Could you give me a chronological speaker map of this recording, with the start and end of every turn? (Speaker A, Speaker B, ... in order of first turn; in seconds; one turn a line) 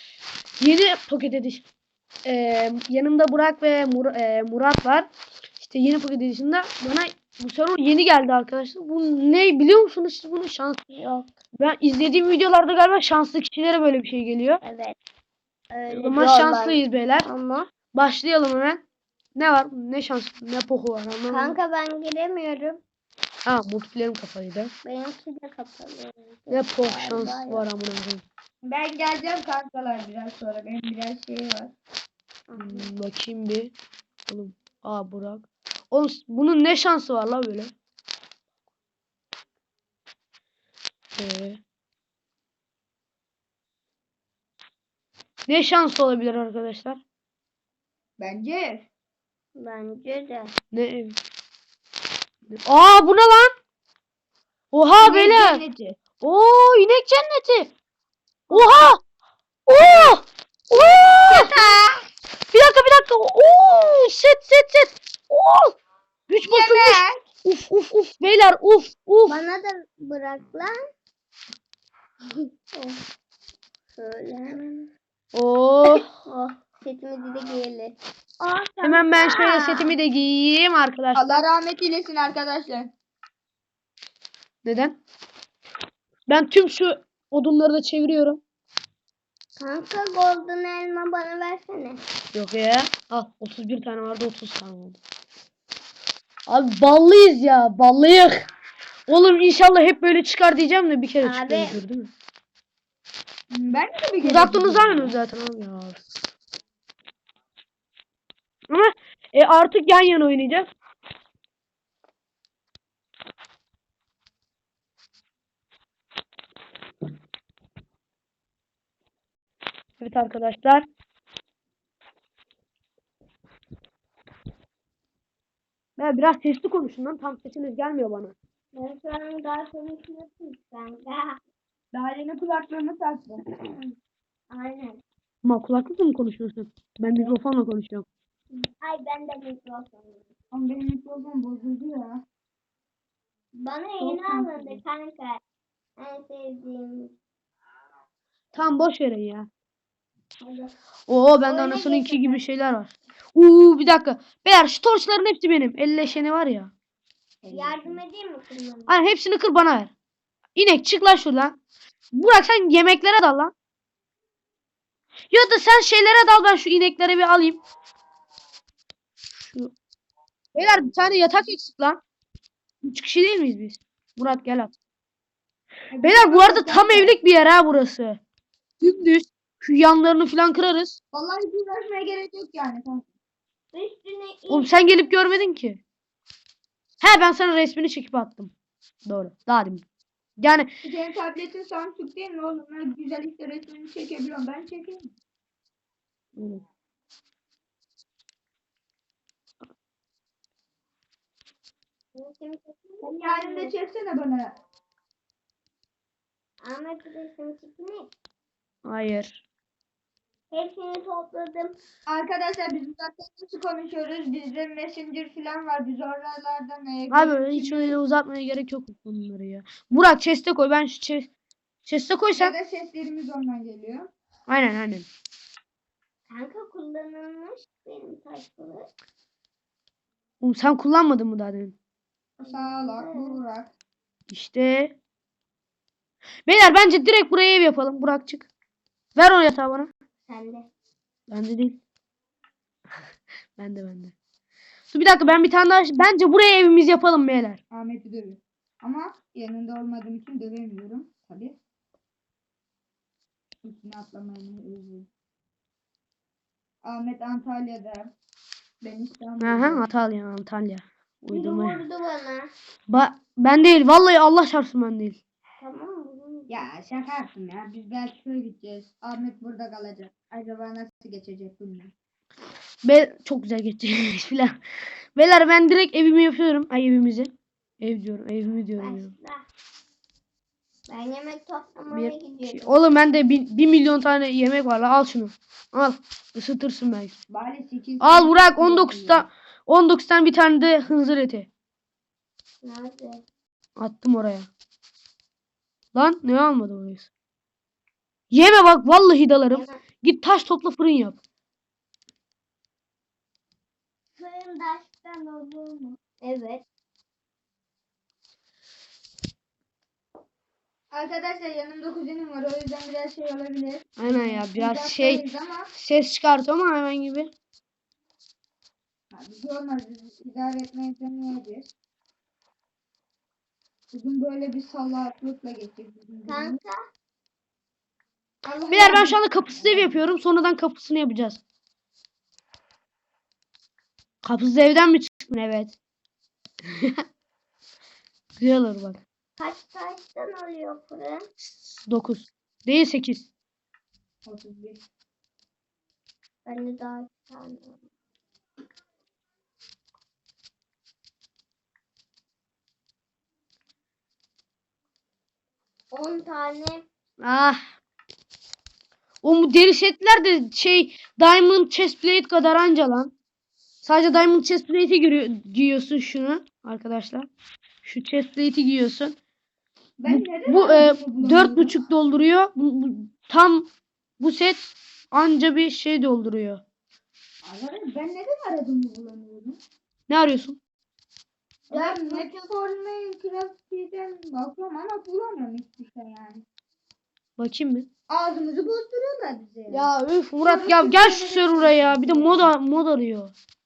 Speaker A: 0.6-1.6
Speaker A: 2.2-10.8
Speaker B: 10.9-11.3
Speaker A: 11.6-14.6
Speaker B: 14.6-15.0
Speaker B: 15.7-17.7
Speaker A: 15.9-17.3
Speaker A: 17.9-18.8
Speaker A: 19.4-21.6
Speaker B: 21.3-22.8
Speaker A: 23.5-24.7
Speaker B: 24.9-27.7
Speaker A: 26.5-28.2
Speaker C: 28.6-31.7
Speaker B: 32.5-32.9
Speaker A: 32.6-33.7
Speaker A: 34.3-37.7
Speaker A: 41.2-41.6
Speaker A: 45.5-47.0
Speaker C: 48.2-48.9
Speaker B: 49.6-50.5
Speaker A: 50.7-51.2
Speaker A: 52.5-53.5
Speaker A: 54.7-55.6
Speaker C: 55.0-56.0
Speaker A: 56.2-57.7
Speaker A: 58.5-59.0
Speaker A: 59.7-61.7
Speaker C: 61.3-61.7
Speaker A: 62.5-65.8
Speaker A: 66.3-69.4
Speaker C: 66.4-67.2
Speaker B: 69.3-70.8
Speaker B: 72.4-73.0
Speaker B: 74.0-74.9
Speaker A: 75.3-76.0
Speaker B: 75.8-79.9
Speaker A: 78.8-81.4
Speaker C: 81.1-82.9
Speaker A: 84.6-85.0
Speaker A: 86.3-88.4
Speaker B: 89.6-92.0
Speaker A: 92.3-95.0
Speaker A: 96.5-98.5
Speaker A: 99.1-102.1
Speaker B: 101.2-101.8
Speaker C: 103.5-105.2
Speaker A: 104.2-106.1
Speaker A: 108.7-110.7
Speaker A: 120.0-120.9
Speaker A: 126.0-128.3
Speaker B: 128.7-131.4
Speaker C: 131.9-133.7
Speaker B: 134.5-135.0
Speaker A: 135.4-138.1
Speaker B: 138.5-140.3
Speaker C: 140.5-142.2
Speaker B: 143.6-145.4
Speaker C: 144.0-144.8
Speaker B: 146.0-147.1
Speaker A: 148.5-149.5
Speaker B: 150.4-150.7
Speaker A: 151.1-156.7
Speaker B: 151.4-152.4
Speaker C: 157.4-158.0
Speaker B: 157.5-158.9
Speaker A: 158.9-159.9
Speaker A: 160.6-161.6
Speaker A: 162.1-163.5
Speaker A: 165.3-167.6
Speaker A: 169.3-169.7
Speaker A: 170.5-172.0
Speaker A: 172.8-174.7
Speaker C: 175.9-177.2
Speaker A: 176.0-178.2
Speaker A: 178.8-181.0
Speaker C: 181.1-183.1
Speaker B: 183.7-184.8
Speaker A: 184.5-185.8
Speaker A: 187.0-188.5
Speaker A: 189.1-189.8
Speaker A: 190.4-190.7
Speaker C: 190.8-195.1
Speaker A: 196.4-196.6
Speaker B: 202.2-203.7
Speaker C: 203.0-204.5
Speaker B: 206.6-208.1
Speaker A: 208.8-209.4
Speaker B: 210.5-211.8
Speaker C: 212.1-218.0
Speaker A: 217.1-221.3
Speaker A: 221.8-222.5
Speaker C: 222.4-224.1
Speaker A: 224.5-225.1
Speaker B: 226.3-228.9
Speaker A: 230.4-231.8
Speaker B: 232.4-233.4
Speaker C: 232.4-233.7
Speaker A: 234.3-234.9
Speaker A: 236.5-238.5
Speaker A: 239.2-239.9
Speaker B: 240.3-240.7
Speaker A: 241.3-241.8
Speaker A: 243.6-244.1
Speaker A: 244.9-247.6
Speaker C: 247.7-251.6
Speaker C: 253.6-255.1
Speaker C: 256.9-258.1
Speaker C: 258.8-259.9
Speaker A: 259.4-261.8
Speaker B: 261.3-262.5
Speaker A: 262.9-265.2
Speaker B: 265.6-266.5
Speaker C: 266.5-271.9
Speaker A: 272.8-274.6
Speaker A: 275.2-279.1
Speaker B: 278.8-279.4
Speaker B: 280.9-282.8
Speaker A: 281.9-287.2
Speaker C: 287.3-289.3
Speaker A: 288.0-291.5
Speaker B: 292.6-293.2
Speaker A: 293.8-294.5
Speaker A: 295.9-297.1
Speaker A: 298.3-301.2
Speaker B: 299.5-299.8
Speaker B: 304.2-306.6
Speaker C: 310.9-315.7
Speaker A: 314.0-317.3
Speaker C: 319.1-321.7
Speaker C: 323.9-326.6
Speaker B: 326.3-326.8
Speaker C: 328.4-330.0
Speaker A: 328.7-331.4
Speaker A: 334.2-335.8
Speaker A: 338.4-339.0
Speaker B: 339.4-341.3
Speaker A: 341.4-343.3
Speaker C: 344.2-344.8
Speaker B: 346.5-347.8
Speaker B: 355.9-356.9
Speaker A: 357.2-357.7
Speaker A: 359.2-363.1
Speaker A: 363.8-367.3
Speaker A: 367.8-369.2
Speaker C: 370.0-371.8
Speaker A: 370.1-373.7
Speaker A: 374.2-376.6
Speaker C: 377.4-379.6
Speaker A: 380.1-380.6
Speaker B: 381.7-382.4
Speaker C: 381.7-386.4
Speaker A: 387.4-387.9
Speaker C: 388.1-389.9
Speaker A: 389.7-393.3
Speaker C: 390.4-392.5